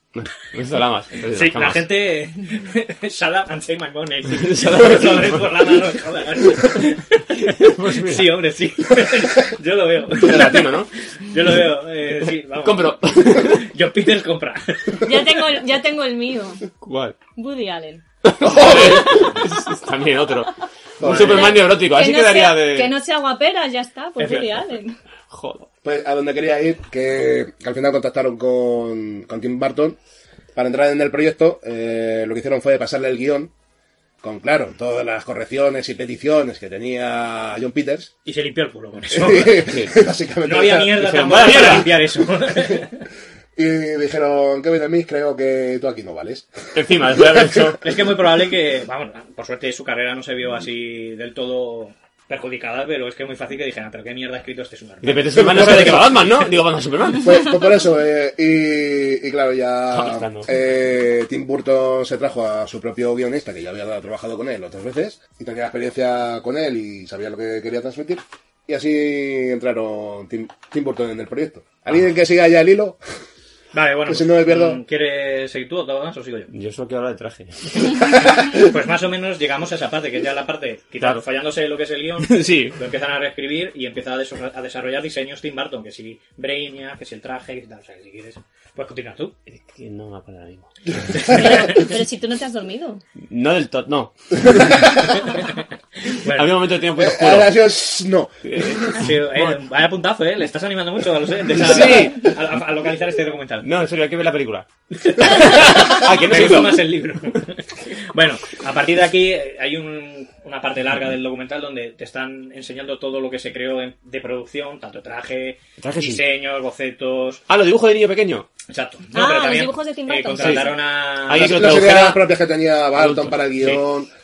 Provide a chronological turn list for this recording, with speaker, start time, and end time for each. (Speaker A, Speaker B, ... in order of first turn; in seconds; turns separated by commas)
Speaker A: 0.1-1.9, Speaker B: 1.3-15.1, Speaker A: 4.3-5.7, Speaker A: 7.6-8.4, Speaker A: 10.2-10.9, Speaker A: 12.6-13.6, Speaker C: 15.0-16.7, Speaker A: 16.8-17.2, Speaker C: 17.4-18.0, Speaker A: 18.3-22.9, Speaker D: 18.4-19.3, Speaker C: 18.7-19.4, Speaker D: 21.0-21.6, Speaker C: 21.1-25.0, Speaker A: 24.2-24.5, Speaker A: 25.3-25.7, Speaker D: 25.8-30.0, Speaker D: 30.6-33.5, Speaker D: 34.2-38.1, Speaker B: 38.2-39.7, Speaker D: 39.1-41.4, Speaker A: 39.7-39.9, Speaker B: 40.4-43.0, Speaker A: 41.0-41.9, Speaker D: 43.6-47.8, Speaker A: 46.7-47.8, Speaker B: 47.8-56.1, Speaker A: 55.0-57.4, Speaker D: 55.4-56.1, Speaker D: 57.2-73.0, Speaker A: 59.9-60.5, Speaker B: 73.7-76.5, Speaker D: 74.1-74.8, Speaker A: 76.5-77.9, Speaker B: 78.2-89.3, Speaker A: 82.2-82.8, Speaker A: 89.5-90.7, Speaker B: 91.1-91.8, Speaker C: 91.2-93.0, Speaker A: 93.3-95.0, Speaker B: 96.1-96.5, Speaker A: 96.3-97.6, Speaker D: 97.0-98.3, Speaker A: 98.4-99.6, Speaker B: 98.9-103.7, Speaker A: 101.5-102.3, Speaker A: 103.6-106.9, Speaker B: 105.0-117.4, Speaker A: 115.8-116.2, Speaker A: 117.5-118.5, Speaker B: 118.7-121.7, Speaker C: 119.1-120.8, Speaker A: 120.4-122.2, Speaker D: 121.3-124.1, Speaker A: 123.0-123.8